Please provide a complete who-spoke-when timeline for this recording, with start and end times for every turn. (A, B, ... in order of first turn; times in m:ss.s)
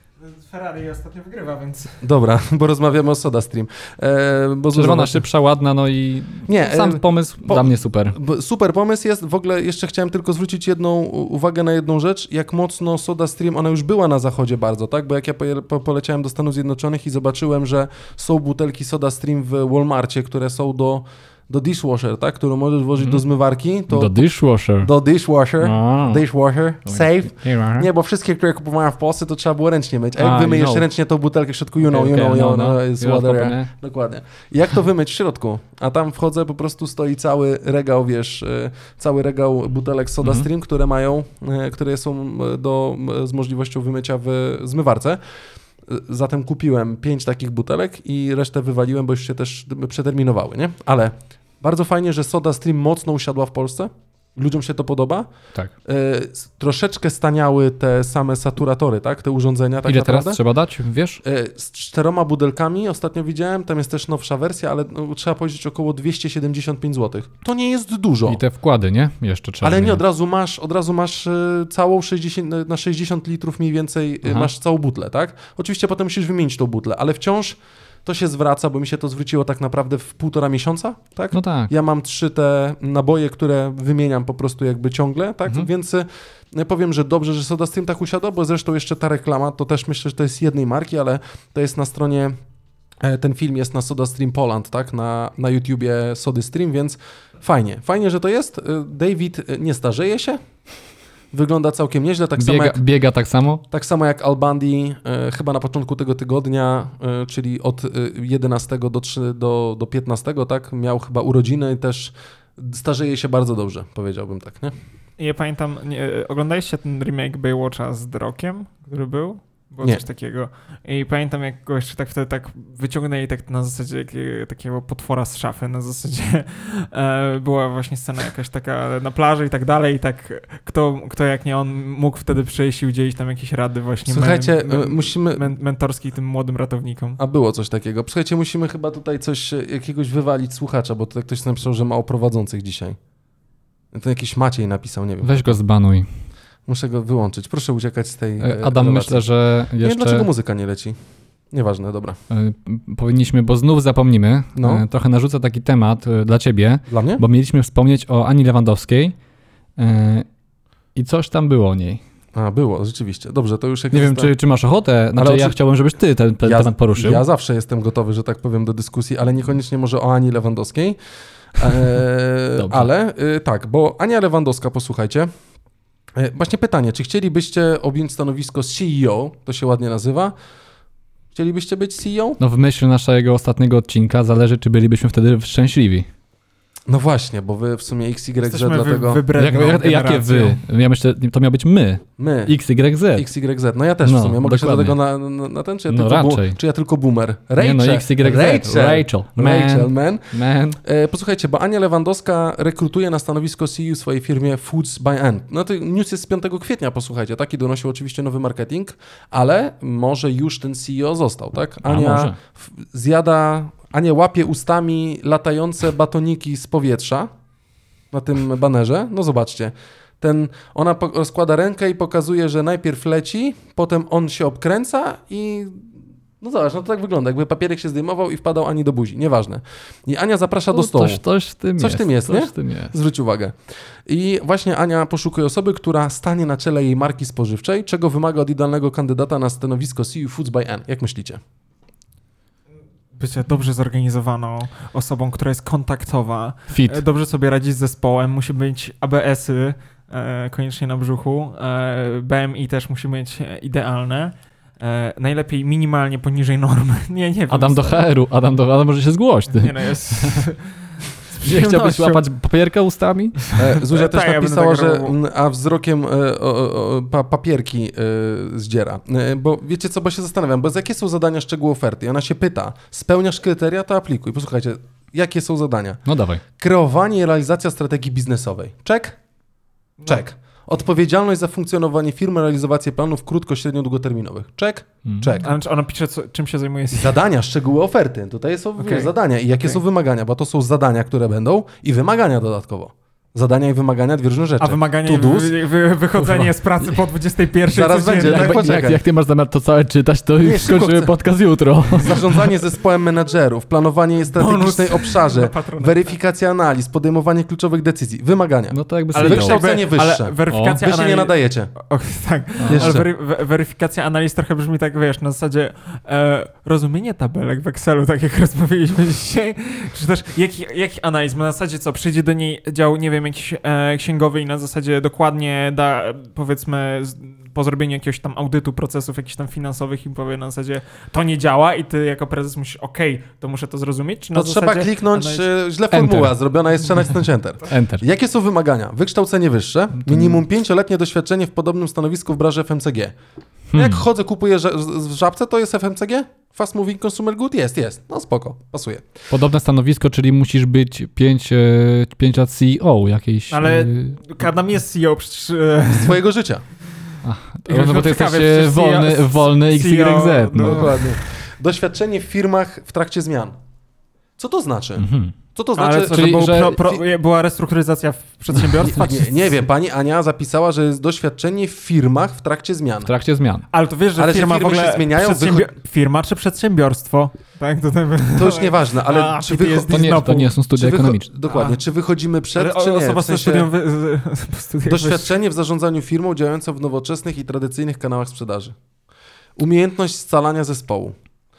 0:00.2-0:02.0 A
0:02.0-0:05.2 B
0:04.7-0:08.2 C
0:06.5-0:24.1 B
0:23.0-0:23.2 C
0:23.9-0:24.9 C
0:24.8-0:45.2 B
0:25.6-0:26.2 C
0:26.8-0:27.9 C
0:30.2-0:30.9 C
0:31.8-0:33.7 C
0:40.2-0:40.5 C
0:45.9-0:55.3 B
0:55.8-1:00.4 B
0:59.9-1:01.2 C
1:01.2-1:08.4 B
1:08.3-1:10.0 C
1:09.6-1:32.4 B
1:14.2-1:14.5 C
1:21.3-1:21.7 C
1:33.0-1:40.4 B
1:41.3-1:42.8 B
1:42.4-1:43.6 C
1:43.7-1:54.7 B
1:55.2-2:17.2 A
2:14.1-2:15.5 B
2:17.2-2:23.0 B
2:23.9-2:25.6 B
2:25.2-2:26.1 C
2:26.7-2:29.3 B
2:28.4-2:30.3 C
2:29.8-2:31.0 B
2:31.5-2:32.2 B
2:32.3-2:39.1 C
2:34.6-2:34.8 B
2:36.9-2:37.2 B
2:39.8-2:40.3 C
2:41.0-2:42.0 C
2:42.4-2:44.3 B
2:43.9-2:47.2 C
2:45.2-2:45.6 B
2:46.4-2:51.0 B
2:51.6-2:55.3 B
2:52.6-2:52.9 C
2:56.2-3:00.3 B
3:01.3-3:02.4 B
3:02.4-3:06.1 C
3:06.9-3:09.2 B
3:08.4-3:10.6 A
3:09.3-3:13.3 C
3:12.2-3:12.5 B
3:13.2-3:37.3 B
3:14.0-3:15.0 C
3:15.9-3:16.6 C
3:17.6-3:20.8 C
3:31.8-3:32.4 C
3:38.1-3:51.2 B
3:50.7-3:52.9 C
3:51.8-3:53.6 B
3:54.1-4:01.4 B
4:03.1-4:18.0 A
4:06.7-4:07.0 C
4:17.5-4:20.5 C
4:19.5-4:22.2 A
4:21.4-4:23.5 C
4:23.4-4:25.2 A
4:23.6-4:36.0 B
4:36.1-4:36.4 C
4:36.6-4:39.2 B
4:40.0-4:40.2 A
4:40.1-4:45.5 B
4:45.1-4:45.4 C
4:45.4-4:47.2 A
4:46.9-4:55.6 B
4:48.8-4:49.1 A
4:54.6-4:58.6 A
4:57.7-4:59.0 B
4:58.1-5:02.6 C
5:00.4-5:01.1 B
5:02.0-5:11.7 B
5:04.3-5:06.1 A
5:08.7-5:09.7 C
5:09.1-5:35.5 A
5:10.5-5:10.8 C
5:12.6-5:13.1 C
5:12.7-5:13.0 B
5:34.4-5:43.1 B
5:35.9-5:36.4 C
5:37.7-5:38.0 C
5:40.0-5:40.4 C
5:43.7-5:44.1 C
5:43.7-5:49.1 B
5:49.3-5:54.2 C
5:53.5-5:56.2 A
5:55.9-5:56.6 B
5:57.2-6:01.0 C
5:57.7-6:01.0 A
6:00.6-6:03.6 B
6:04.4-6:07.0 B
6:05.0-6:05.3 C
6:05.8-6:09.6 A
6:06.1-6:06.8 C
6:08.7-6:13.1 B
6:13.0-6:13.7 C
6:13.7-6:20.5 A
6:14.2-6:15.7 B
6:18.4-6:23.7 B
6:19.9-6:21.3 C
6:21.4-6:21.8 A
6:22.5-6:25.4 A
6:24.8-6:28.8 B
6:29.6-6:31.2 B